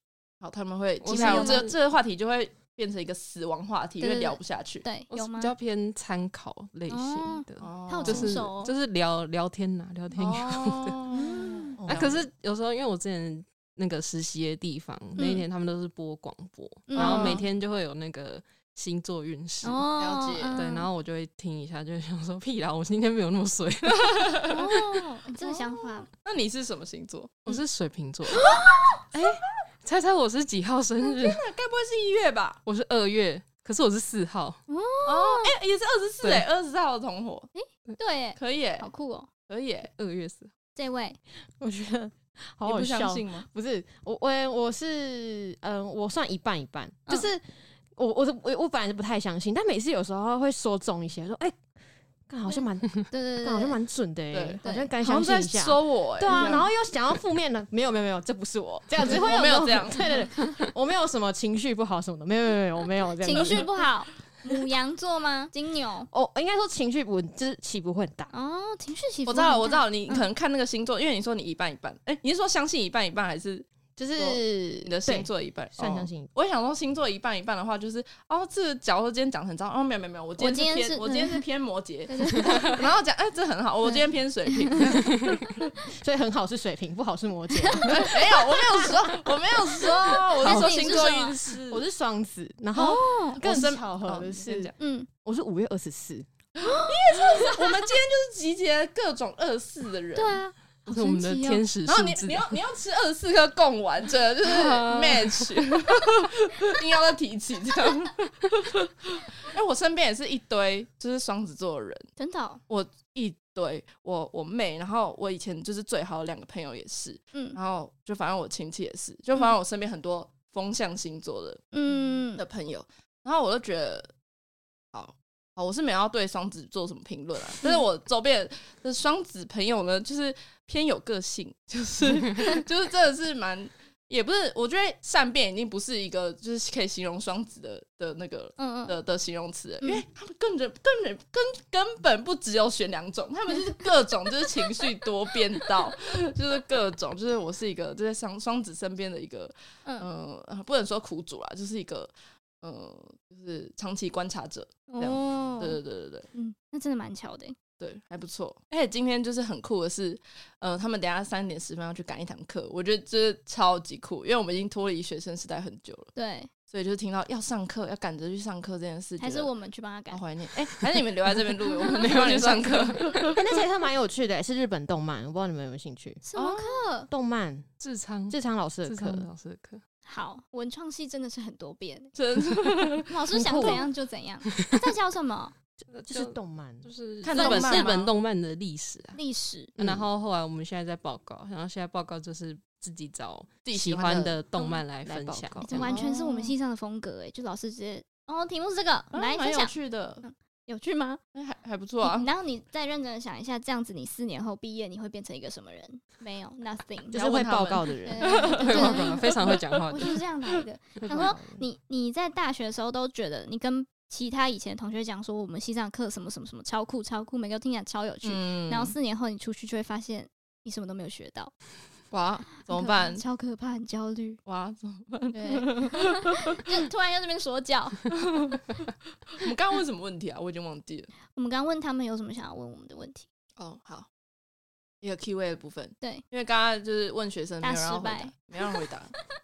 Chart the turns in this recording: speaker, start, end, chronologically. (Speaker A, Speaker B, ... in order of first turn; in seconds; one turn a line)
Speaker A: 0.4-4.8
Speaker B: 1.0-1.7
Speaker C: 1.1-1.6
Speaker C: 4.0-5.5
Speaker B: 5.1-11.0
Speaker C: 6.9-8.7
Speaker A: 7.6-8.3
Speaker A: 10.1-12.1
Speaker C: 11.1-11.8
Speaker D: 11.8-12.2
Speaker B: 11.8-19.9
Speaker C: 15.2-15.4
Speaker C: 16.9-17.4
Speaker A: 16.9-17.4
Speaker C: 19.6-20.9
Speaker A: 20.0-20.6
Speaker B: 20.5-24.6
Speaker C: 24.4-26.1
Speaker A: 25.4-27.6
Speaker B: 27.4-28.5
Speaker A: 28.3-29.3
Speaker C: 28.4-28.7
Speaker B: 29.1-31.4
Speaker A: 31.0-32.6
Speaker B: 32.6-34.6
Speaker C: 34.7-35.5
Speaker A: 35.0-37.5
Speaker C: 37.5-39.3
Speaker A: 38.4-38.9
Speaker A: 39.5-39.9
Speaker B: 39.9-40.5
Speaker C: 40.7-41.2
Speaker D: 41.6-51.6
Speaker A: 42.6-43.5
Speaker D: 52.3-63.7
Speaker C: 52.5-53.8
Speaker A: 54.3-56.7
Speaker C: 54.6-54.9
Speaker A: 59.0-60.1
Speaker C: 63.2-66.1
Speaker A: 63.3-63.6
Speaker D: 66.1-68.3
Speaker C: 68.3-70.2
Speaker A: 69.2-85.2
Speaker D: 74.0-76.3
Speaker C: 80.4-81.4
Speaker C: 82.1-82.8
Speaker C: 84.7-85.0
Speaker B: 85.1-85.4
Speaker D: 85.8-89.1
Speaker C: 87.6-88.2
Speaker A: 87.9-91.8
Speaker C: 90.2-91.4
Speaker D: 90.4-90.7
Speaker D: 91.7-94.7
Speaker C: 92.7-93.4
Speaker A: 93.4-94.7
Speaker C: 94.8-95.1
Speaker D: 95.2-96.3
Speaker A: 96.6-100.4
Speaker C: 100.1-101.6
Speaker B: 100.8-102.6
Speaker A: 101.8-112.1
Speaker B: 104.4-105.5
Speaker C: 112.2-112.6
Speaker A: 112.7-121.7
Speaker C: 121.7-122.4
Speaker A: 122.3-124.1
Speaker A: 124.9-156.3
Speaker C: 138.6-139.0
Speaker C: 154.9-155.8
Speaker C: 156.3-157.6
Speaker A: 157.8-166.1
Speaker C: 166.1-166.5
Speaker A: 166.7-169.5
Speaker C: 169.2-170.2
Speaker A: 170.1-173.4
Speaker B: 170.8-173.3
Speaker D: 173.3-176.2
Speaker C: 176.2-177.1
Speaker A: 176.3-176.8
Speaker D: 177.1-177.7
Speaker B: 177.8-179.8
Speaker D: 178.3-179.3
Speaker C: 180.0-182.2
Speaker A: 182.2-183.7
Speaker C: 183.1-185.5
Speaker D: 183.3-183.8
Speaker B: 184.6-184.9
Speaker B: 185.9-189.2
Speaker D: 186.1-186.9
Speaker A: 187.2-188.1
Speaker C: 187.3-187.9
Speaker C: 189.2-189.7
Speaker B: 189.8-196.0
Speaker A: 193.6-194.4
Speaker D: 195.0-196.0
Speaker C: 195.6-201.2
Speaker A: 195.8-196.5
Speaker A: 199.1-200.2
Speaker A: 201.3-202.3
Speaker C: 202.0-207.2
Speaker D: 207.1-209.0
Speaker A: 207.1-209.8
Speaker C: 208.0-209.3
Speaker B: 208.6-210.2
Speaker C: 209.9-221.5
Speaker D: 211.0-211.6
Speaker A: 218.2-218.9
Speaker A: 222.1-223.2
Speaker C: 222.6-224.4
Speaker A: 224.4-226.6
Speaker C: 225.3-228.0
Speaker A: 228.1-228.6
Speaker A: 229.4-231.1
Speaker C: 231.3-233.2
Speaker A: 233.6-234.1
Speaker A: 235.0-239.1
Speaker C: 237.6-238.8